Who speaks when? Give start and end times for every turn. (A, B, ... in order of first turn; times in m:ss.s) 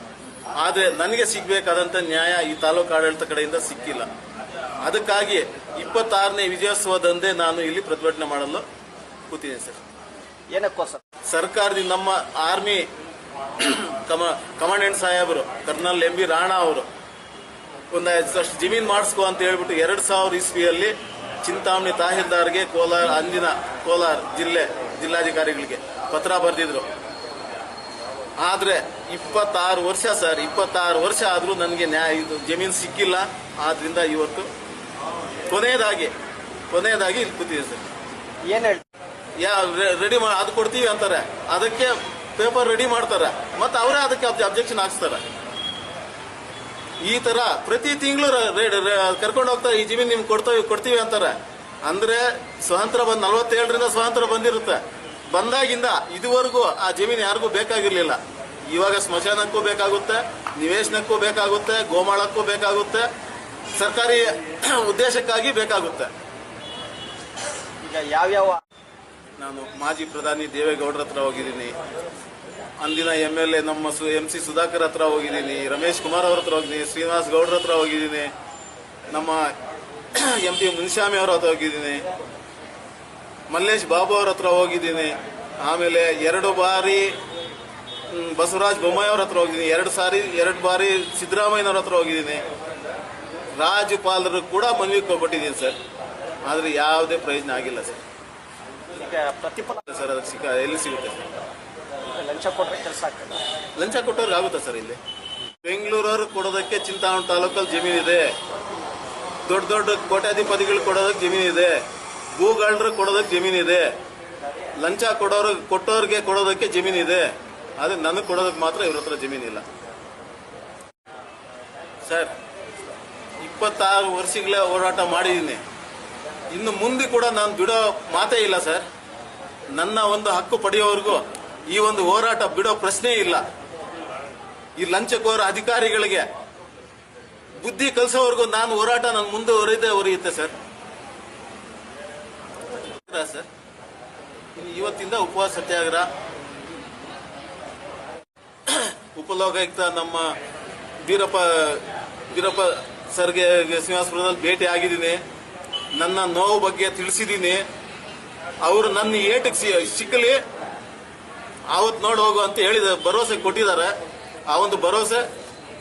0:00.6-0:04.1 A
0:04.8-0:08.6 A
0:09.3-0:09.8 A
0:10.5-0:11.0 B
0:11.2-0:12.9 A
0:13.6-0:16.9 A
0:17.9-0:26.9 A
0:28.4-0:34.5 A
0:35.5-0:36.1 A
0:36.7-0:37.9 A
0:38.4-0:38.8 B
0:39.4-0:45.2 A
0:47.0-1:03.1 A
1:03.7-1:06.1 A
1:07.8-1:08.6 B
1:09.4-1:11.8 A
1:12.8-1:18.3 A
1:19.1-1:19.6 A
1:20.1-1:22.1 A
1:23.5-1:27.2 A
1:28.1-1:32.4 A
1:33.6-1:35.8 A
1:36.4-1:38.0 A
1:38.9-1:39.8 B
1:39.8-1:41.3 A
1:42.1-1:43.4 B
1:43.8-1:45.0 A
1:45.6-1:48.4 A
1:49.4-1:53.9 A
1:54.8-1:59.6 A
2:02.0-2:02.3 A
2:03.4-2:05.6 A
2:06.5-2:08.8 A
2:09.7-2:13.4 A
2:14.8-2:16.3 A
2:17.6-2:20.5 A
2:23.0-2:23.5 A
2:24.5-2:26.1 A
2:28.7-2:30.4 A
2:31.0-2:35.2 A
2:35.9-2:37.6 A
2:38.6-2:40.4 A
2:41.7-2:43.9 A
2:44.5-2:45.3 A